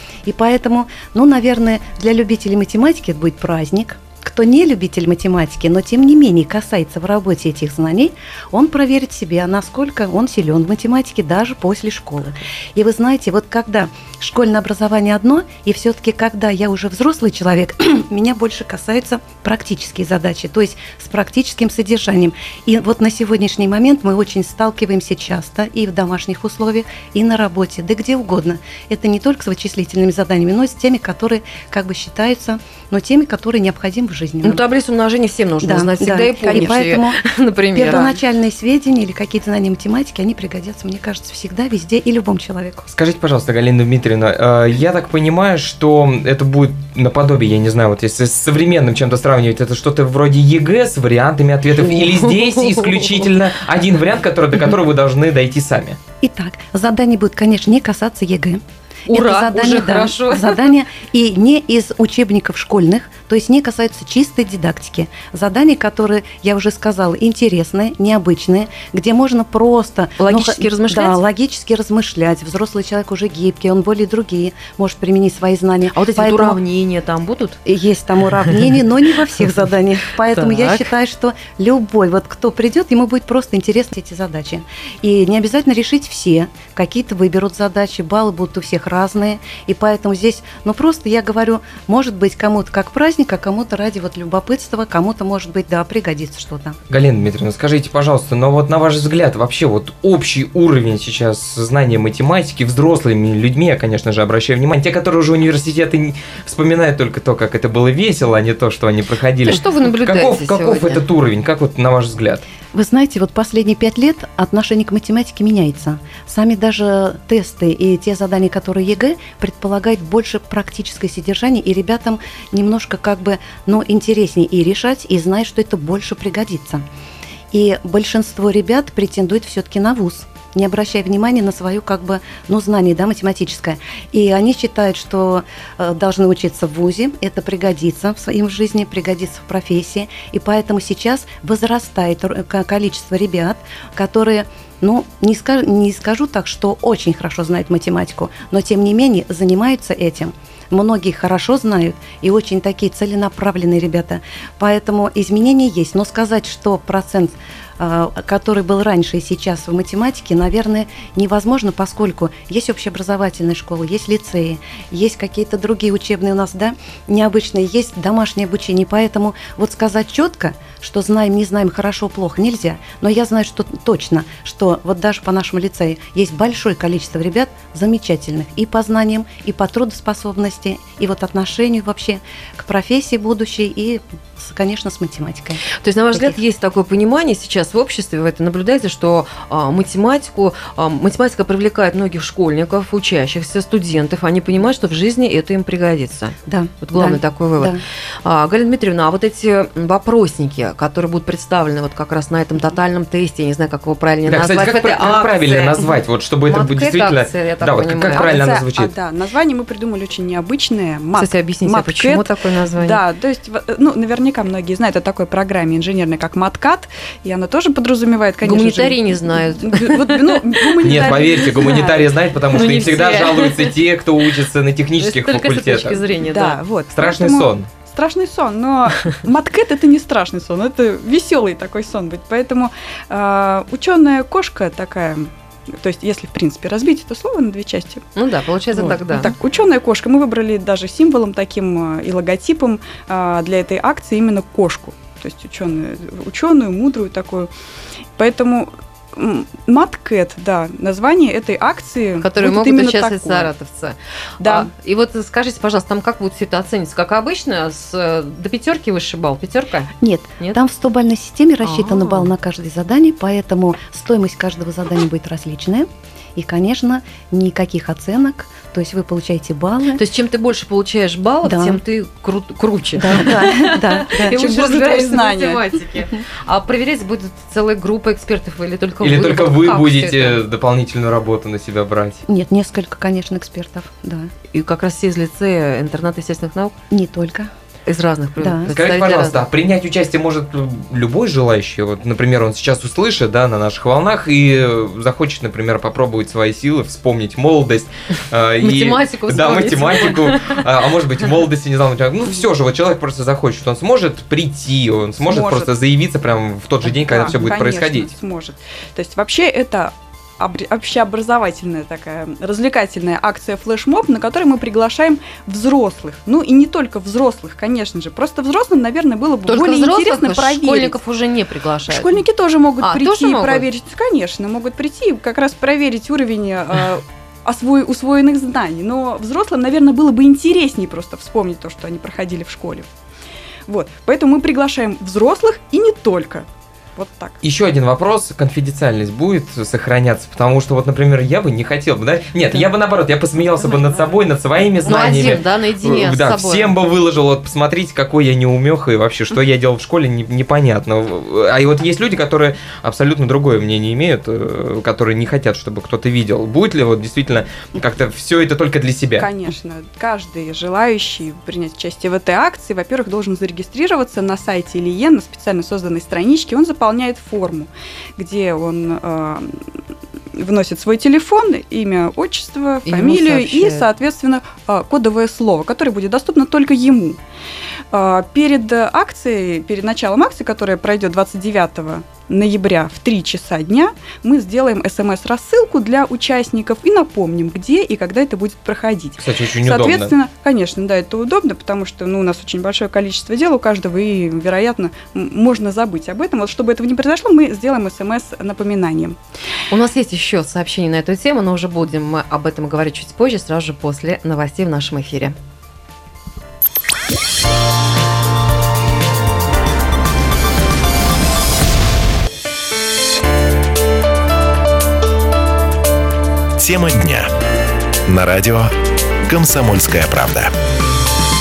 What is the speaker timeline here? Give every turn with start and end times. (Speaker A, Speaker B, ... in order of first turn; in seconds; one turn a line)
Speaker A: 0.2-34.6
Speaker B: 34.4-38.1
Speaker A: 35.6-37.2
Speaker A: 37.7-42.9
Speaker C: 42.9-56.0
Speaker B: 51.8-53.3
Speaker A: 56.2-76.6
Speaker B: 59.1-60.6
Speaker B: 70.2-71.2
Speaker B: 75.9-77.6
Speaker A: 77.6-96.8
Speaker B: 80.3-80.9
Speaker C: 96.9-112.4
Speaker B: 109.4-111.0
Speaker A: 112.7-126.8
Speaker A: 127.5-186.4
Speaker B: 185.8-205.9
Speaker A: 196.4-197.8
Speaker C: 204.2-208.9
Speaker B: 206.5-208.3
Speaker D: 208.1-222.0
Speaker B: 211.2-213.0
Speaker B: 218.4-220.5
Speaker C: 220.8-226.0
Speaker B: 221.6-221.9
Speaker B: 222.5-223.7
Speaker B: 225.0-226.6
Speaker D: 226.1-238.0
Speaker C: 226.9-227.7
Speaker B: 238.2-239.3
Speaker D: 238.7-247.5
Speaker D: 248.2-253.5
Speaker B: 252.2-260.6
Speaker D: 254.4-254.7
Speaker A: 260.0-270.0
Speaker B: 261.6-262.3
Speaker B: 269.9-280.4
Speaker A: 271.4-271.8
Speaker A: 273.0-274.4
Speaker D: 274.3-275.6
Speaker C: 279.0-282.2
Speaker A: 282.2-284.3
Speaker B: 284.5-286.7
Speaker A: 286.9-287.5
Speaker B: 287.9-289.4
Speaker A: 288.4-288.7
Speaker C: 288.7-308.1
Speaker B: 298.6-300.3
Speaker D: 305.2-305.7
Speaker D: 306.8-321.0
Speaker B: 319.5-322.1
Speaker D: 321.9-332.9
Speaker B: 322.8-323.7
Speaker D: 333.7-337.3
Speaker C: 337.4-359.3
Speaker B: 344.8-346.8
Speaker D: 359.2-369.6
Speaker D: 370.4-377.2
Speaker B: 372.9-373.9
Speaker D: 377.9-399.2
Speaker C: 389.2-390.1
Speaker B: 399.7-405.4
Speaker E: 416.6-417.3
Speaker E: 418.1-420.5